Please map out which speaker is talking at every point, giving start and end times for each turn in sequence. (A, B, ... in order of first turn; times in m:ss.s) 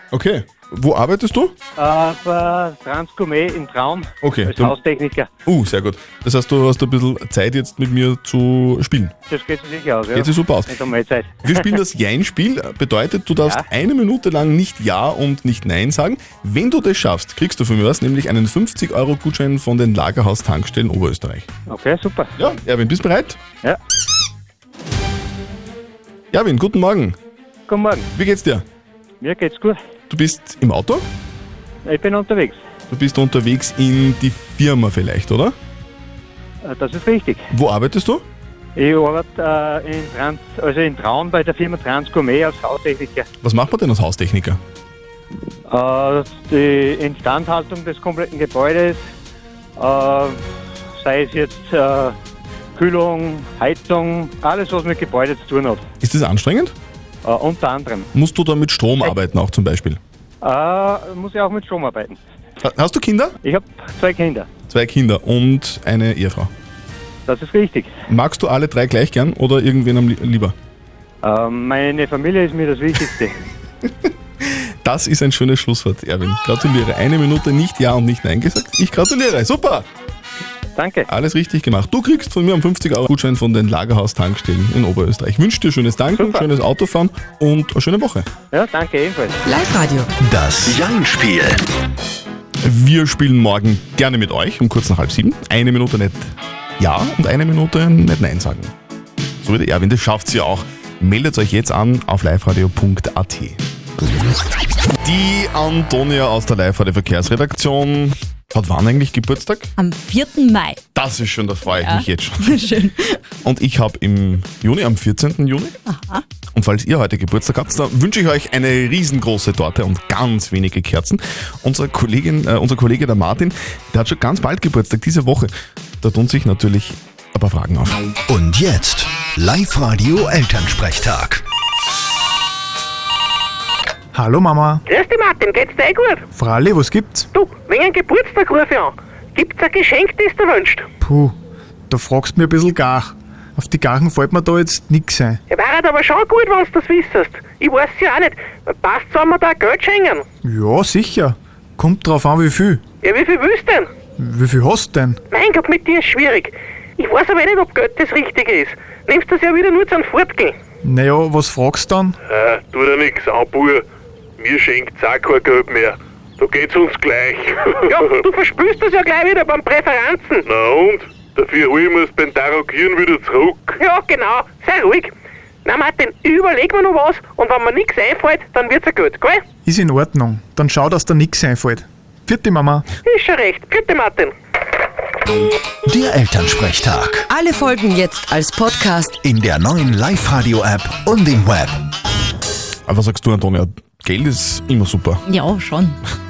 0:00.1-0:01.5 A
0:01.8-0:05.3 B
0:04.2-0:04.7 A
0:05.4-0:09.1 A
0:09.3-0:11.6 B
0:10.1-0:10.7 A
0:11.4-0:21.5 A
0:21.7-0:22.3 B
0:22.4-0:23.4 A
0:26.3-0:27.2 A
0:27.7-0:28.1 B
0:28.1-0:28.6 A
0:29.2-0:29.8 B
0:30.1-0:31.0 A
0:31.8-0:32.6 B
0:32.9-0:35.5 A
0:36.6-0:37.4 B
0:37.5-0:38.2 A
0:38.8-0:43.2 B
0:43.4-0:44.6 A
0:45.7-0:49.0 B
0:49.8-0:50.4 B
0:51.0-0:52.1 B
0:52.8-0:55.8 B
0:56.0-0:56.7 A
0:57.2-0:58.1 B
0:58.1-1:00.0 A
1:00.4-1:02.2 B
1:02.6-1:03.4 A
1:03.4-1:04.5 B
1:04.7-1:06.5 A
1:07.3-1:07.9 B
1:08.1-1:10.5 A
1:11.2-1:13.3 B
1:14.0-1:19.9 A
1:20.8-1:21.1 B
1:21.1-1:28.3 A
1:26.2-1:26.5 B
1:28.5-1:29.4 B
1:29.4-1:30.1 C
1:30.2-1:31.6 D
1:32.6-1:38.7 A
1:39.4-1:43.6 A
1:45.0-1:49.7 A
1:49.8-1:50.8 E
1:50.9-1:52.8 A
1:51.6-1:53.2 E
1:53.4-1:55.8 A
1:55.8-1:56.2 E
1:56.5-2:08.0 A
2:08.3-2:11.4 D
2:14.1-2:14.8 F
2:14.8-2:16.2 G
2:16.3-2:17.3 F
2:17.3-2:20.8 G
2:21.0-2:21.3 F
2:21.9-2:25.4 F
2:25.5-2:30.2 G
2:30.4-2:32.8 F
2:33.0-2:33.9 G
2:34.2-2:35.2 F
2:35.3-2:40.6 G
2:40.8-2:42.2 F
2:42.3-2:43.8 H
2:44.4-2:48.2 H
2:47.9-2:50.4 G
2:50.4-2:53.8 H
2:53.8-2:55.1 G
2:55.6-2:59.4 G
2:59.6-3:02.8 F
3:03.0-3:04.3 G
3:05.8-3:07.2 D
3:07.3-3:09.2 C
3:09.2-3:11.8 D
3:12.9-3:15.2 A
3:15.2-3:16.0 E